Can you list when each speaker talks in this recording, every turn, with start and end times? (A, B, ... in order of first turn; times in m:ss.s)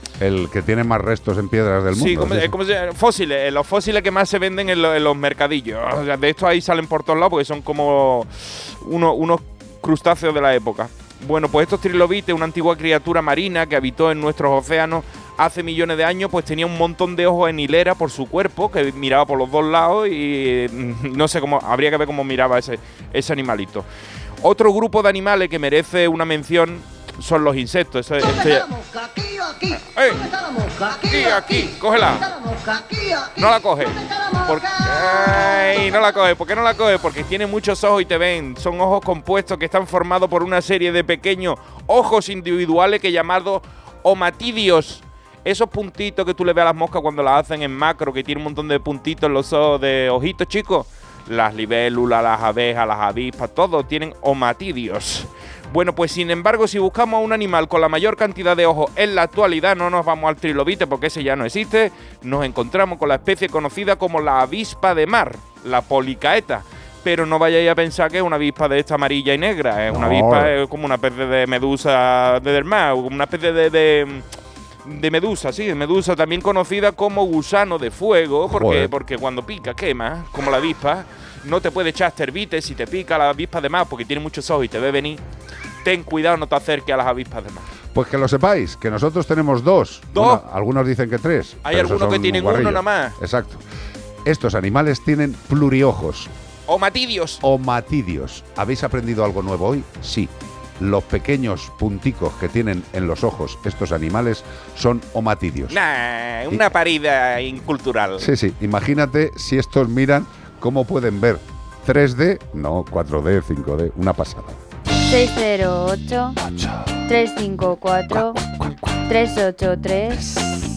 0:00.2-0:02.5 A
0:01.9-0:23.9 B
0:24.4-0:28.7 B
0:29.8-0:32.3 B
0:33.4-1:14.2 B
1:09.9-1:10.5 A
1:14.8-1:25.2 B
1:18.5-1:18.9 A
1:25.8-1:27.7 B
1:27.9-1:33.6 A
1:30.1-1:30.4 B
1:31.6-1:33.2 B
1:34.2-1:36.3 A
1:36.7-1:37.4 B
1:37.4-1:45.8 A
1:45.7-1:48.3 B
1:48.2-1:54.6 A
1:55.0-1:56.4 C
1:57.1-1:58.4 C
1:59.1-2:00.3 C